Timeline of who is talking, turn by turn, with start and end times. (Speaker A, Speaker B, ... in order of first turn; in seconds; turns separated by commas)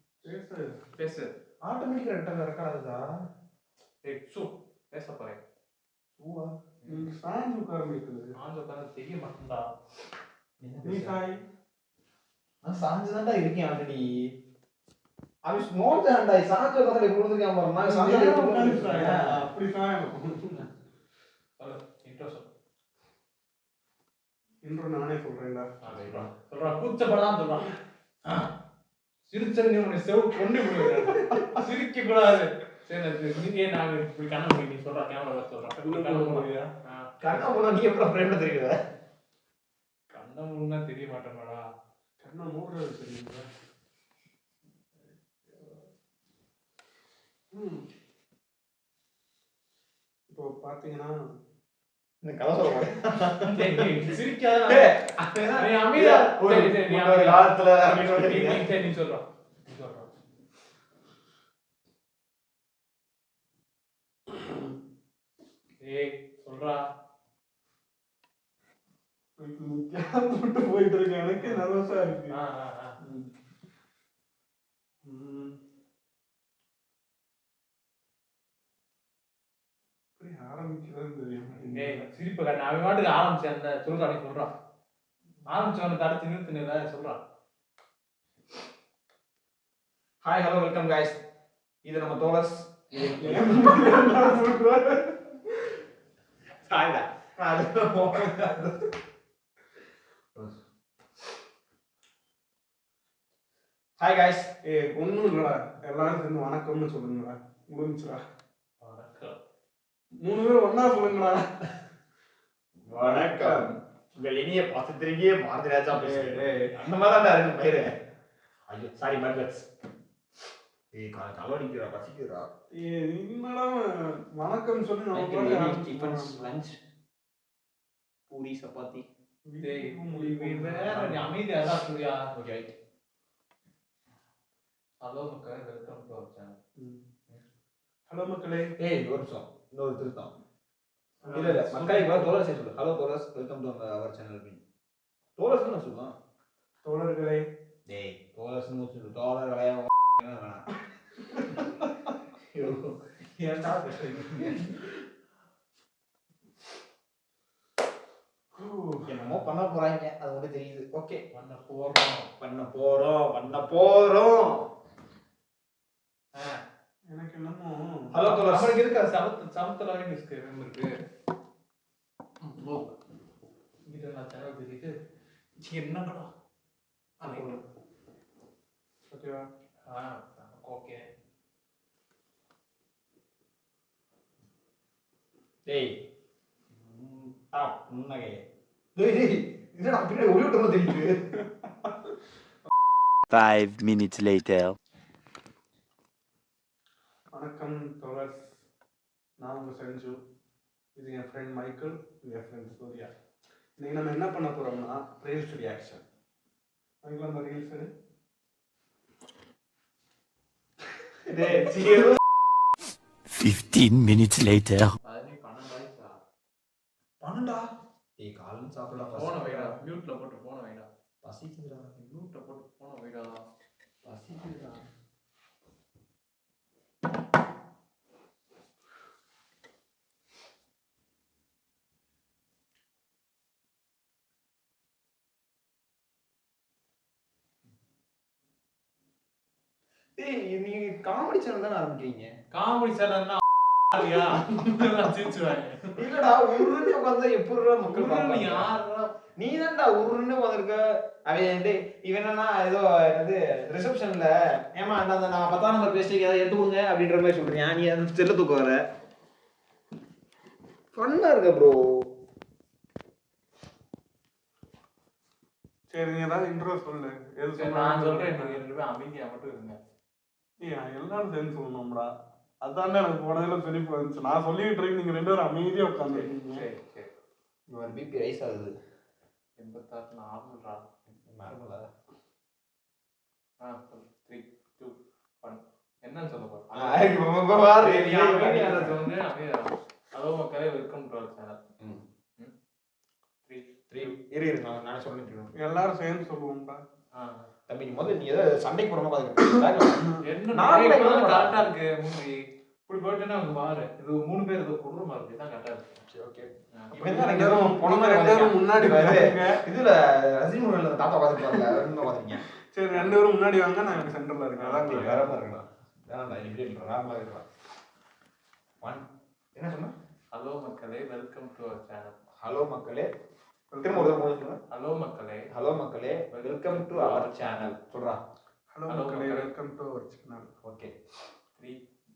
Speaker A: 0.2-0.8, Speaker B: 1.0-1.3, Speaker C: 1.6-3.0, Speaker B: 4.0-5.4, Speaker C: 6.2-6.5, Speaker B: 6.8-7.1, Speaker A: 6.9-8.3, Speaker B: 8.4-9.7, Speaker C: 10.6-11.2, Speaker A: 10.8-11.4, Speaker C: 12.6-14.1, Speaker C: 15.4-19.3, Speaker A: 17.8-20.6, Speaker B: 21.6-22.5, Speaker A: 24.6-25.7, Speaker B: 25.8-27.7, Speaker C: 25.9-26.3, Speaker B: 29.3-37.1, Speaker A: 35.8-36.7, Speaker C: 37.2-38.8, Speaker B: 40.1-41.6, Speaker A: 42.2-43.4, Speaker A: 47.5-47.8, Speaker A: 50.3-51.1, Speaker C: 52.2-58.6, Speaker B: 53.4-55.0, Speaker B: 55.5-60.1, Speaker B: 65.8-66.8, Speaker A: 69.4-72.4, Speaker B: 71.4-71.6, Speaker B: 72.3-72.9, Speaker A: 73.0-73.3, Speaker A: 75.0-75.5, Speaker A: 80.2-82.0, Speaker B: 81.7-84.5, Speaker B: 85.5-87.2, Speaker C: 90.2-91.2, Speaker C: 91.8-94.1, Speaker A: 92.9-95.3, Speaker C: 96.6-98.8, Speaker C: 104.0-104.5, Speaker A: 104.6-108.2, Speaker B: 108.8-109.4, Speaker A: 110.2-111.5, Speaker C: 112.8-117.9, Speaker A: 113.0-113.7, Speaker A: 115.9-116.7, Speaker C: 118.7-119.7, Speaker C: 120.9-122.5, Speaker A: 122.7-123.8, Speaker A: 124.4-126.6, Speaker C: 125.1-126.8, Speaker C: 128.3-129.0, Speaker A: 129.4-131.3, Speaker B: 129.6-132.3, Speaker C: 132.3-132.7, Speaker B: 135.0-136.6, Speaker A: 138.1-138.7, Speaker C: 138.8-140.3, Speaker A: 141.2-142.4, Speaker C: 141.3-144.6, Speaker C: 145.4-146.1, Speaker A: 146.8-147.4, Speaker C: 147.8-150.7, Speaker C: 152.5-154.7, Speaker A: 158.5-159.3, Speaker C: 159.0-161.2, Speaker B: 161.3-162.3, Speaker C: 162.4-164.6, Speaker A: 167.1-167.8, Speaker C: 168.1-168.8, Speaker B: 168.2-170.9, Speaker B: 172.4-172.9, Speaker B: 173.8-174.9, Speaker B: 175.6-176.3, Speaker B: 177.2-177.6, Speaker A: 177.2-177.6, Speaker A: 179.1-179.4, Speaker B: 179.8-181.0, Speaker C: 185.6-185.9, Speaker C: 187.5-188.4, Speaker C: 188.9-191.2, Speaker D: 193.3-194.8, Speaker A: 197.3-198.4, Speaker A: 199.4-200.1, Speaker A: 200.9-203.1, Speaker A: 203.8-206.0, Speaker A: 207.0-207.9, Speaker C: 211.2-212.2, Speaker D: 213.3-214.9, Speaker B: 215.0-216.2, Speaker C: 217.2-217.6, Speaker C: 218.2-219.8, Speaker B: 218.9-220.9, Speaker C: 221.2-222.2, Speaker B: 222.1-223.3, Speaker C: 224.0-224.8, Speaker C: 240.2-242.3, Speaker B: 242.5-245.9, Speaker C: 246.0-248.7, Speaker B: 247.8-249.1, Speaker C: 249.4-258.8, Speaker C: 260.9-262.1, Speaker A: 265.9-268.6, Speaker B: 267.6-269.8, Speaker A: 270.6-272.1, Speaker A: 272.6-276.6, Speaker B: 276.1-277.1, Speaker C: 277.7-278.7, Speaker B: 279.6-280.8, Speaker C: 281.2-281.9, Speaker B: 283.6-287.1, Speaker C: 286.7-289.0, Speaker B: 287.8-291.6, Speaker B: 293.4-294.1, Speaker C: 293.9-295.5, Speaker A: 295.6-296.8, Speaker B: 297.1-297.5, Speaker C: 297.7-301.7, Speaker B: 300.2-302.3, Speaker B: 302.9-305.8, Speaker C: 306.1-312.4, Speaker A: 307.0-309.6, Speaker A: 312.7-315.4, Speaker B: 312.9-313.2, Speaker B: 313.8-315.4, Speaker C: 314.8-317.4, Speaker C: 318.8-319.9, Speaker B: 320.3-322.1, Speaker C: 322.4-323.1, Speaker A: 323.7-324.2, Speaker C: 323.8-324.6, Speaker B: 324.7-325.4, Speaker C: 325.5-328.2, Speaker B: 326.3-327.7, Speaker A: 328.7-330.5, Speaker B: 328.9-329.5, Speaker C: 330.6-330.9